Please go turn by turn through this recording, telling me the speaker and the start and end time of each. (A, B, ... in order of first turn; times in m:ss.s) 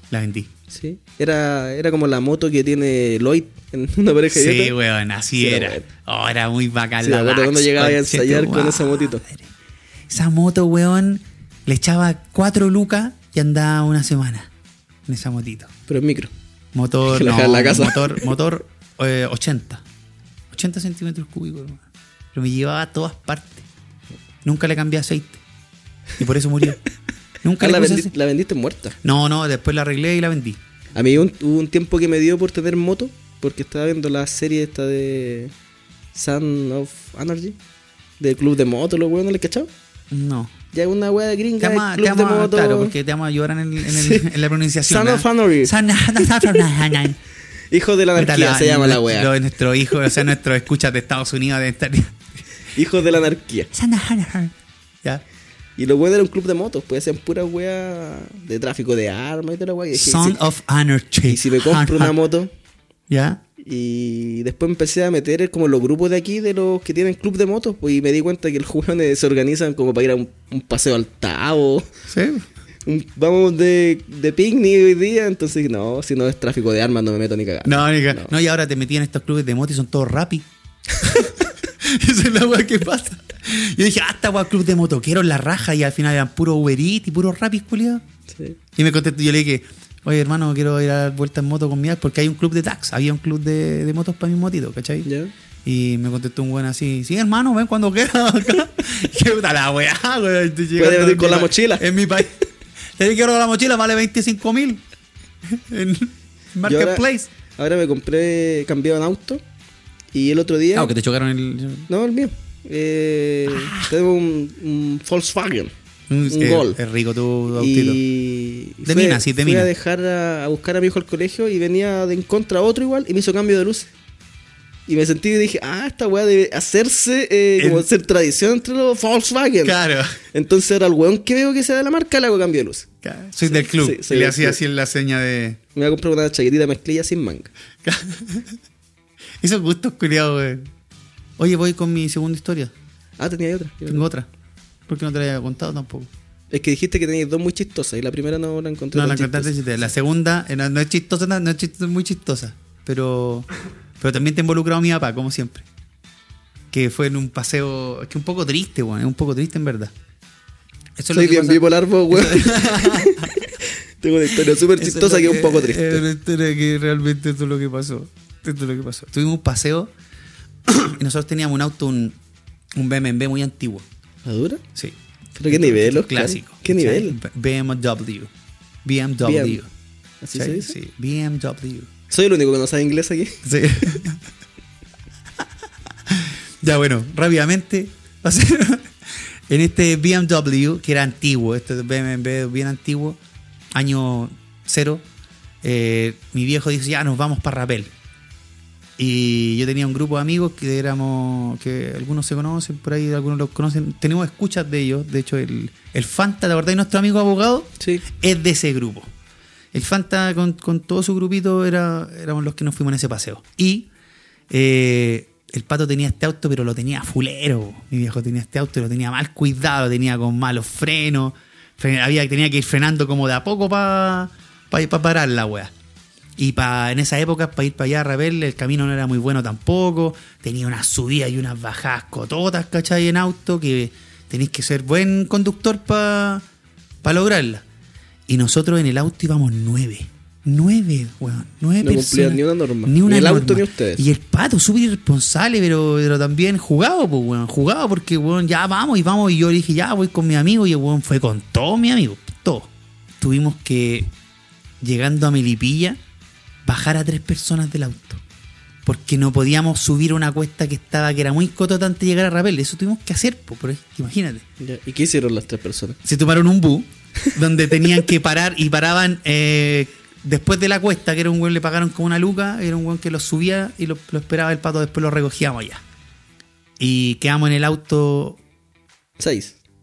0:00.1-0:00.5 A
0:00.7-0:04.7 B
0:04.3-0:09.5 A
0:05.4-0:05.9 B
0:07.0-0:09.2 B
0:10.1-0:14.5 A
0:15.1-0:15.7 A
0:15.9-0:16.3 B
0:16.7-0:19.8 A
0:17.1-0:18.3 B
0:20.5-0:21.8 A
0:22.3-0:23.7 A
0:24.4-0:25.4 A
0:26.2-0:26.8 A
0:27.4-0:28.1 A
0:27.6-0:29.0 B
0:29.0-0:30.6 A
0:31.0-0:35.5 B
0:36.1-0:37.6 B
0:38.2-0:39.7 B
0:40.1-0:40.5 A
0:40.7-0:43.0 B
0:41.6-0:47.2 A
0:43.9-0:44.3 B
0:44.8-0:45.7 B
0:47.7-0:49.3 B
0:48.2-0:52.2 A
0:52.8-0:53.7 B
0:53.7-0:55.2 A
0:55.8-1:00.4 B
0:59.9-1:02.2 A
1:01.2-1:02.5 B
1:03.1-1:03.4 A
1:03.6-1:11.9 B
1:12.1-1:12.5 A
1:12.8-1:18.3 B
1:17.6-1:20.5 A
1:21.0-1:28.0 A
1:28.3-1:28.6 B
1:28.8-1:35.1 A
1:35.0-1:35.3 B
1:35.6-1:44.8 A
1:40.8-1:41.8 B
1:45.5-1:47.3 A
1:46.6-1:47.0 B
1:47.6-1:49.4 B
1:50.1-1:50.9 B
1:50.8-1:51.9 A
1:51.9-1:55.7 B
1:53.5-1:53.9 A
1:56.1-1:58.0 A
1:56.3-1:56.8 B
1:57.6-2:03.9 B
1:58.8-1:59.7 A
2:04.9-2:09.8 B
2:07.6-2:07.9 A
2:09.6-2:10.2 A
2:10.3-2:12.9 B
2:13.0-2:15.6 A
2:13.5-2:14.6 B
2:15.8-2:17.5 B
2:17.8-2:18.6 A
2:19.4-2:20.7 A
2:21.4-2:22.7 A
2:23.2-2:24.1 B
2:23.9-2:24.3 A
2:24.9-2:26.1 A
2:26.5-2:29.5 B
2:28.9-2:33.5 A
2:34.0-2:35.7 A
2:36.7-2:39.9 A
2:41.0-2:43.4 A
2:41.1-2:46.0 B
2:44.7-2:49.9 A
2:50.7-2:52.2 A
2:52.8-2:53.9 A
2:54.2-2:54.6 B
2:55.4-2:57.2 B
2:55.5-2:58.3 A
2:58.8-2:59.7 A
2:59.2-2:59.6 B
3:00.2-3:00.8 B
3:00.3-3:01.9 A
3:02.1-3:03.4 B
3:03.4-3:04.2 A
3:06.1-3:08.9 A
3:09.5-3:13.2 A
3:13.7-3:15.0 A
3:15.6-3:17.9 A
3:19.0-3:29.1 A
3:29.7-3:33.9 A
3:34.5-3:45.7 A
3:46.4-3:56.4 A
3:57.0-3:57.6 A
3:58.3-4:14.1 A
4:01.8-4:04.0 B
4:14.8-4:16.0 A
4:16.6-4:18.2 A
4:18.8-4:24.4 A
4:24.6-4:26.0 B
4:26.0-4:35.8 A
4:36.8-4:38.4 A
4:39.2-4:39.6 B